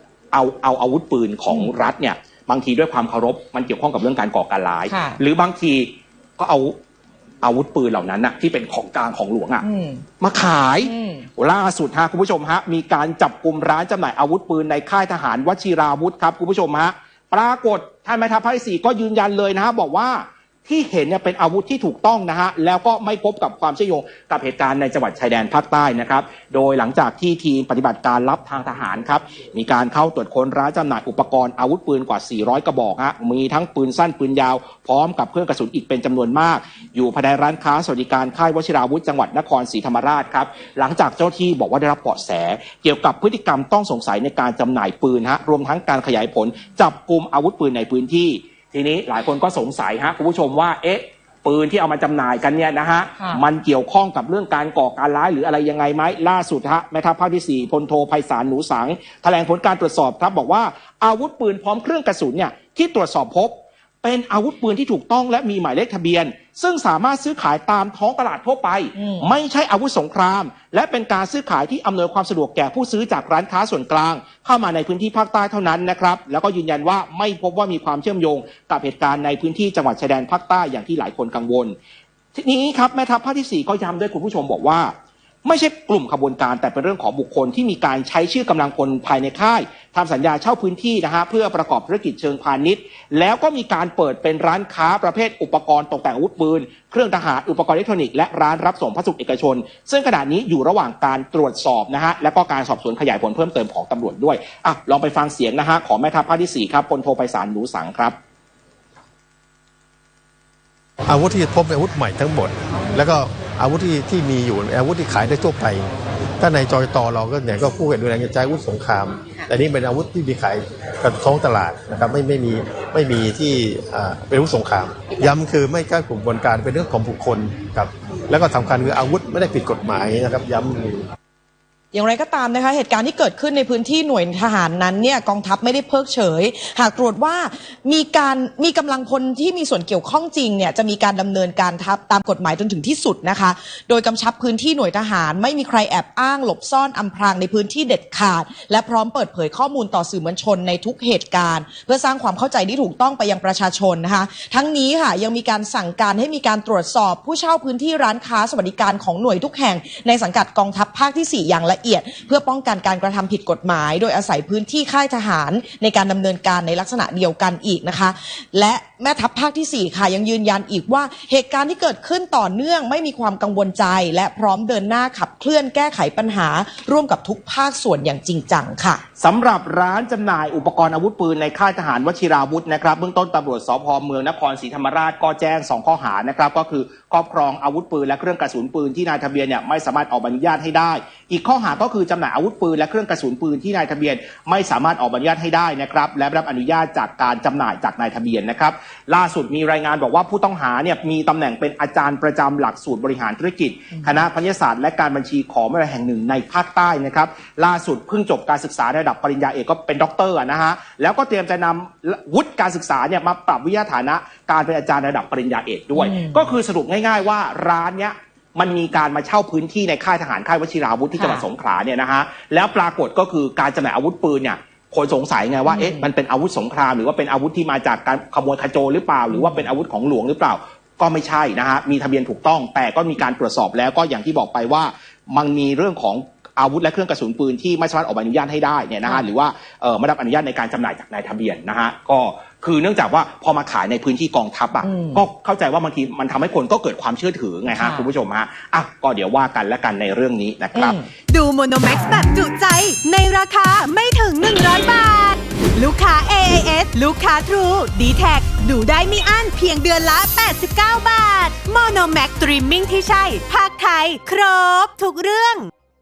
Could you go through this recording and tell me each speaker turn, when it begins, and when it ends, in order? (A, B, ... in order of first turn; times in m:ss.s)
0:00.3-0:06.8 A
0:04.9-0:05.2 B
0:07.4-0:09.6 A
0:09.6-0:10.0 B
0:10.2-1:21.8 A
0:10.8-0:11.3 B
1:09.0-1:09.3 B
1:22.3-1:24.9 A
1:25.4-1:48.2 A
1:51.1-2:11.0 C
2:11.9-2:59.0 B
2:59.2-4:11.0 A
3:35.9-3:36.5 B
3:41.2-3:41.4 B
3:45.7-3:46.1 B
3:49.3-3:49.6 B
4:04.8-4:05.2 B
4:07.7-4:08.1 B
4:10.7-4:11.1 B
4:11.3-4:25.7 D